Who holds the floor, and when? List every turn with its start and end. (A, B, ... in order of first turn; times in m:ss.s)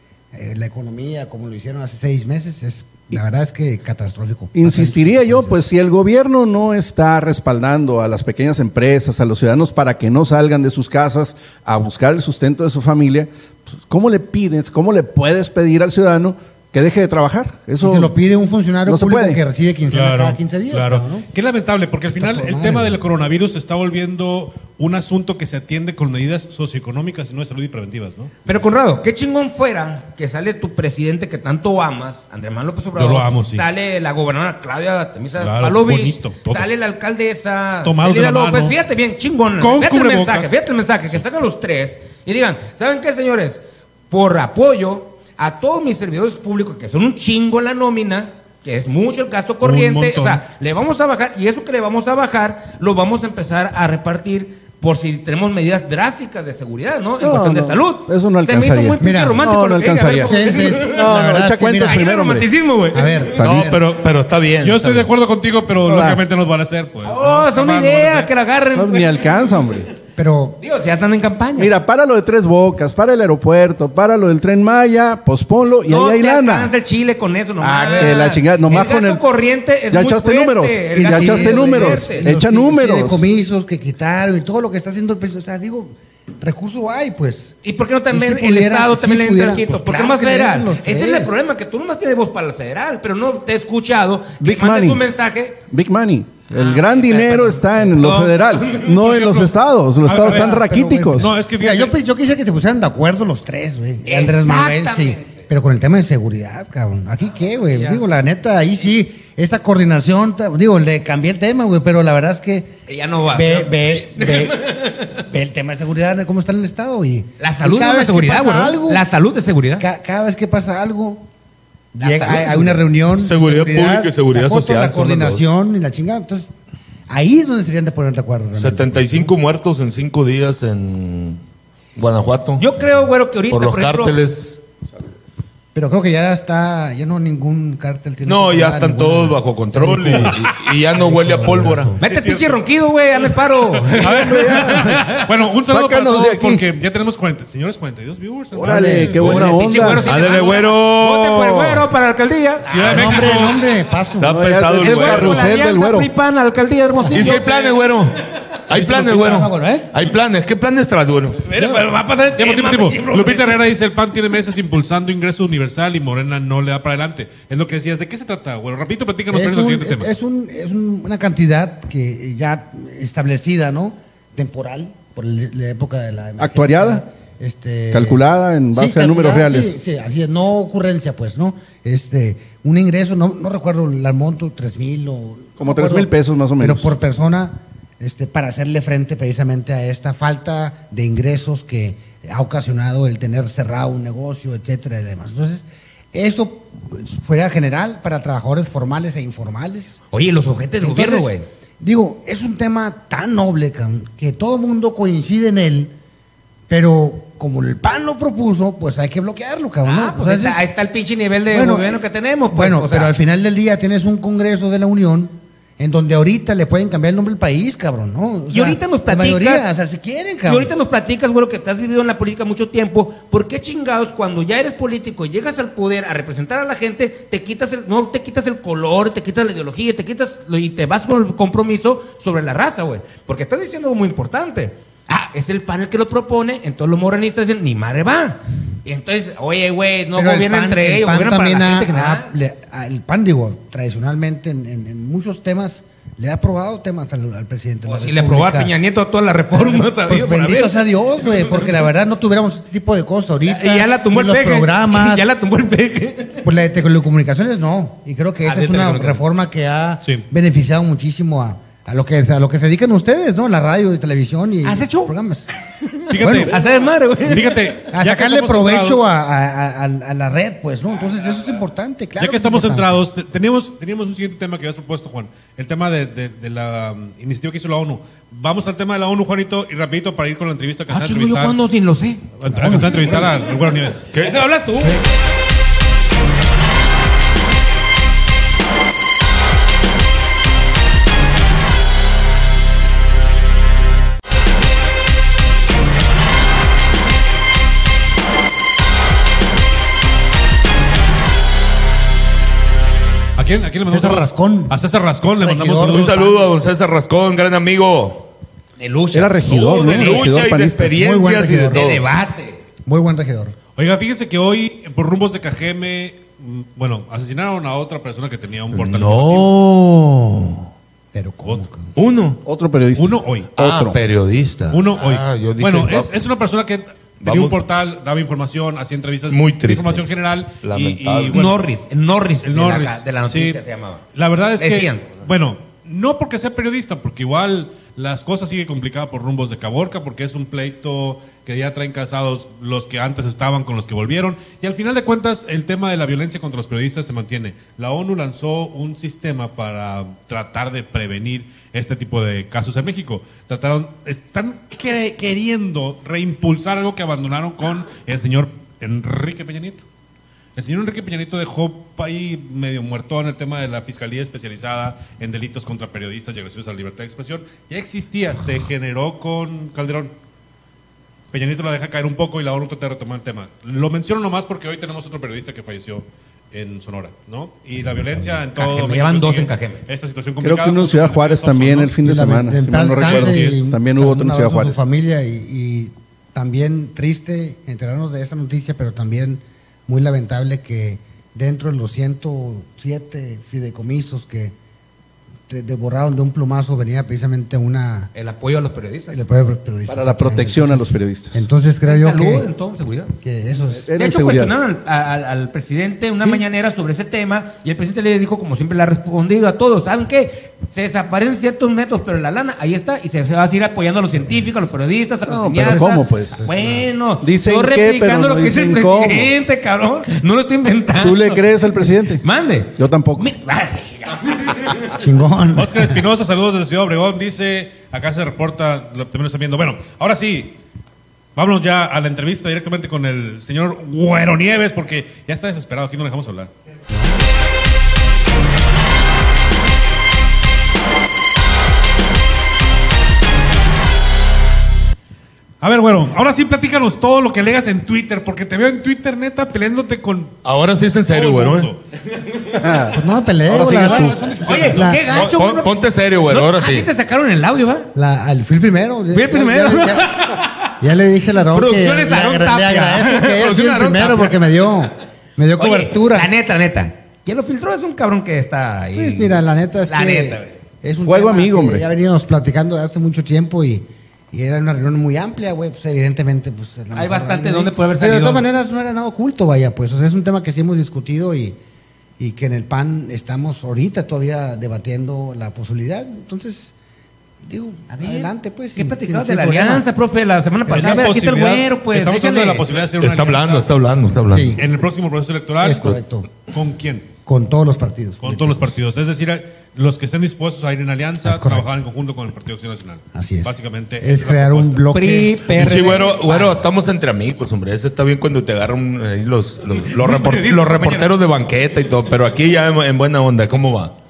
0:00.3-0:05.7 A
0:04.5-0:18.1 B
0:17.8-0:21.2 A
0:18.9-0:19.4 B
0:19.9-0:28.3 C
0:22.1-0:23.0 A
0:28.5-1:01.1 D
0:33.0-0:33.6 C
0:35.4-0:36.7 C
0:37.8-0:38.8 C
0:39.6-0:40.6 C
0:49.6-0:50.4 C
0:57.2-1:02.5 B
0:59.0-0:59.4 A
1:00.2-1:02.0 A
1:01.8-1:03.3 D
1:02.9-1:03.8 A
1:03.4-1:05.1 E
1:03.4-1:03.7 B
1:04.6-1:08.3 C
1:05.8-1:06.2 B
1:07.0-1:09.5 D
1:08.8-1:09.9 B
1:10.2-1:10.6 A
1:10.6-1:11.7 D
1:11.6-1:16.7 B
1:15.9-1:22.4 D
1:17.6-1:19.2 B
1:17.9-1:18.2 A
1:19.9-1:23.2 B
1:21.0-1:31.4 A
1:27.6-1:35.6 D
1:34.4-1:35.1 B
1:35.7-1:41.3 B
1:36.5-1:39.5 D
1:40.0-1:40.6 C
1:40.1-1:52.7 A
1:41.2-1:41.9 C
1:44.0-1:45.3 D
1:47.7-1:48.0 D
1:52.9-1:55.1 D
1:53.3-1:59.1 A
1:57.4-1:59.9 D
1:59.8-2:01.3 A
2:01.9-2:06.5 A
2:02.0-2:02.8 D
2:03.1-2:05.5 E
2:07.1-2:09.3 A
2:08.6-2:11.4 E
2:12.0-2:12.7 E
2:12.6-2:14.2 D
2:13.5-2:14.6 E
2:15.7-2:22.0 A
2:18.2-2:21.9 E
2:22.0-2:25.2 D
2:22.0-2:22.6 C
2:23.7-2:29.4 C
2:24.0-2:25.1 B
2:25.7-2:26.6 B
2:28.6-2:30.1 B
2:28.6-2:29.4 A
2:29.2-2:33.4 D
2:30.1-2:31.9 E
2:32.7-2:33.6 C
2:32.8-2:34.4 A
2:34.2-2:35.5 E
2:34.2-2:36.1 B
2:34.8-2:37.8 D
2:37.1-2:41.5 E
2:38.7-2:39.9 A
2:41.5-2:43.6 D
2:41.6-2:41.8 A
2:42.4-2:50.1 C
2:49.3-2:58.2 A
2:56.4-2:57.0 B
2:57.9-2:59.8 B
2:58.7-3:20.0 A
3:05.6-3:06.9 B
3:20.1-3:21.4 D
3:20.8-3:25.9 A
3:26.7-3:30.6 A
3:29.8-3:33.1 D
3:31.5-3:40.7 A
3:38.5-3:39.7 D
3:40.5-4:02.3 D
4:00.2-4:08.7 A
4:07.9-4:11.8 D
4:09.5-4:15.3 A
4:13.5-4:16.4 D
4:16.4-4:25.5 A
4:18.4-4:19.2 D
4:24.6-4:25.1 D
4:25.8-4:27.7 D
4:26.1-4:26.5 C
4:26.2-4:26.5 A
4:27.2-4:29.0 C
4:27.9-4:33.1 A
4:32.2-4:41.6 C
4:40.9-4:42.3 D
4:42.4-4:44.1 C
4:42.5-4:43.3 A
4:43.0-4:43.4 D
4:44.2-4:45.0 D
5:03.4-5:06.3 C
5:03.9-5:06.2 A
5:05.7-5:08.3 E
5:08.8-5:10.2 D
5:09.1-5:11.0 B
5:09.9-5:12.0 E
5:10.9-5:11.8 A
5:11.7-5:12.6 D
5:12.9-5:13.6 A
5:13.8-5:19.5 C
5:18.7-5:20.7 E
5:21.1-5:21.9 A
5:22.0-5:22.4 E
5:22.4-5:24.0 B
5:23.0-5:23.5 C
5:23.6-5:26.1 E
5:24.7-5:31.7 C
5:27.2-5:27.6 E
5:29.3-5:30.0 E
5:30.6-5:31.4 E
5:31.3-5:34.0 D
5:32.4-5:33.6 C
5:34.1-5:59.8 C
5:34.6-5:35.1 D
6:00.6-6:10.1 C
6:11.3-6:21.9 C
6:17.8-6:18.4 A
6:18.6-6:19.8 D
6:20.4-6:24.8 B
6:22.0-6:34.6 A
6:23.0-6:23.6 C
6:35.5-6:38.1 A
6:38.2-6:39.2 D
6:39.1-6:42.5 A
6:39.9-6:41.4 B
6:41.8-6:43.2 D
6:43.2-6:43.9 A
6:43.9-6:44.6 B
6:44.0-7:01.4 D
6:46.2-6:46.4 A
6:55.3-6:56.5 B
6:55.6-6:56.8 A
6:57.2-6:59.3 B
7:01.0-7:02.2 B
7:02.2-7:05.0 D
7:02.8-7:03.3 B
7:05.0-7:06.0 A
7:05.6-7:10.6 C
7:11.4-7:16.5 C
7:16.9-7:17.2 A
7:25.6-7:30.4 C
7:30.4-7:31.7 E
7:31.1-7:31.8 C
7:32.6-7:33.0 B
7:32.9-7:35.1 A
7:33.5-7:34.2 B
7:33.7-7:35.3 C
7:34.4-7:35.7 D
7:35.2-7:36.9 E
7:36.3-7:37.9 D
7:38.0-7:40.2 A
7:39.1-7:40.7 D
7:40.8-7:46.3 A
7:41.5-7:44.5 D
7:45.6-7:50.6 D
7:49.0-8:01.6 A
7:51.1-7:51.9 B
7:56.9-7:58.5 D
8:02.2-8:06.7 A
8:07.4-8:09.9 A
8:07.9-8:12.6 D
8:10.7-8:11.1 A
8:10.7-8:13.7 C
8:13.0-8:14.6 E
8:14.3-8:14.6 A
8:14.6-8:16.0 C
8:15.6-8:16.3 A
8:16.5-8:17.1 C
8:17.3-8:18.8 A
8:18.2-8:24.8 C
8:21.2-8:21.7 A
8:23.1-8:25.9 A
8:24.9-8:26.6 D
8:25.5-8:33.9 E
8:30.0-8:30.5 C
8:30.1-8:31.0 D